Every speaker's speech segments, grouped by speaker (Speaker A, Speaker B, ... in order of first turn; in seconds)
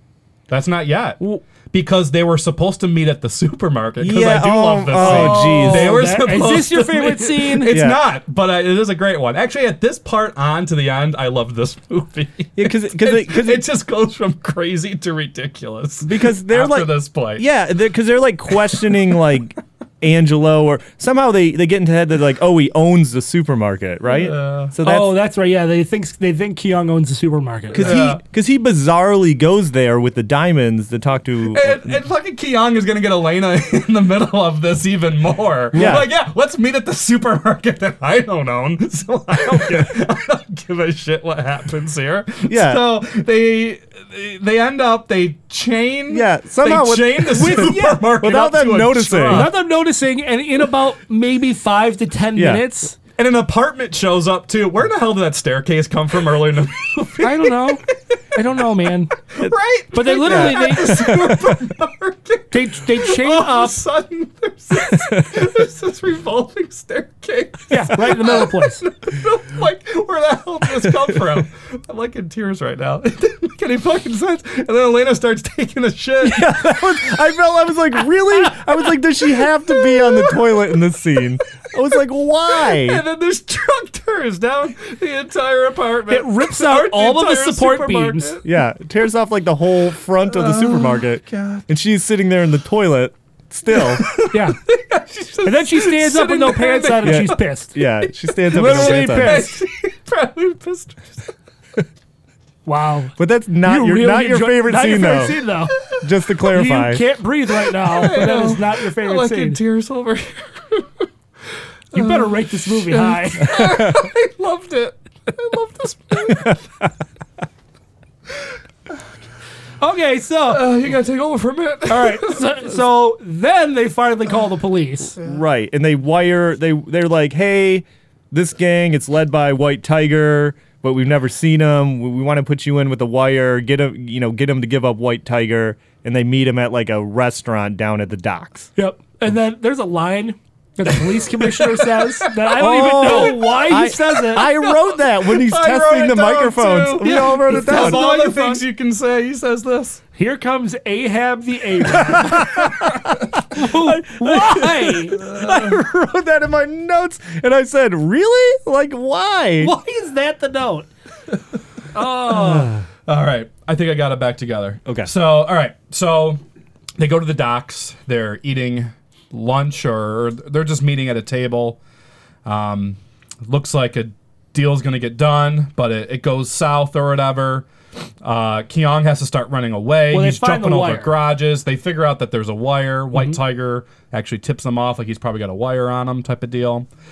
Speaker A: 0.5-17.4, 18.7-19.0, 24.1-24.7, 27.7-28.2, 31.5-49.6, 53.2-57.8, 59.3-76.8, 79.7-80.8, 82.5-88.5, 90.2-91.7, 93.7-97.4, 98.0-101.2, 107.7-111.1, 111.9-116.7, 120.5-122.6, 141.5-150.0, 155.2-155.8, 162.2-166.4, 167.0-171.8, 172.4-177.7, 178.2-186.9
Speaker B: 4.0-6.1, 7.7-8.0, 12.6-13.7, 16.0-25.2, 27.7-31.9, 35.7-36.1, 42.5-42.8, 46.1-49.5, 52.4-52.6, 60.2-61.4, 76.2-83.0, 88.4-94.1, 97.0-99.4, 103.2-105.4, 105.9-107.0, 125.2-138.7, 142.6-148.1, 152.2-152.9, 153.5-159.7, 164.8-165.1
Speaker C: 5.0-7.7, 24.8-27.9, 47.3-48.0, 49.3-52.9, 57.2-57.8, 58.3-59.1, 59.9-61.1, 62.5-63.8, 67.7-68.8, 86.1-88.4, 94.3-94.6, 95.4-97.7, 98.5-99.5, 102.7-105.8, 106.5-109.6, 111.9-113.5, 119.8-120.7, 121.9-125.1, 138.8-144.5, 147.1-148.6, 150.2-152.6, 153.5-155.2, 159.6-160.9, 161.9-162.7, 180.1-181.2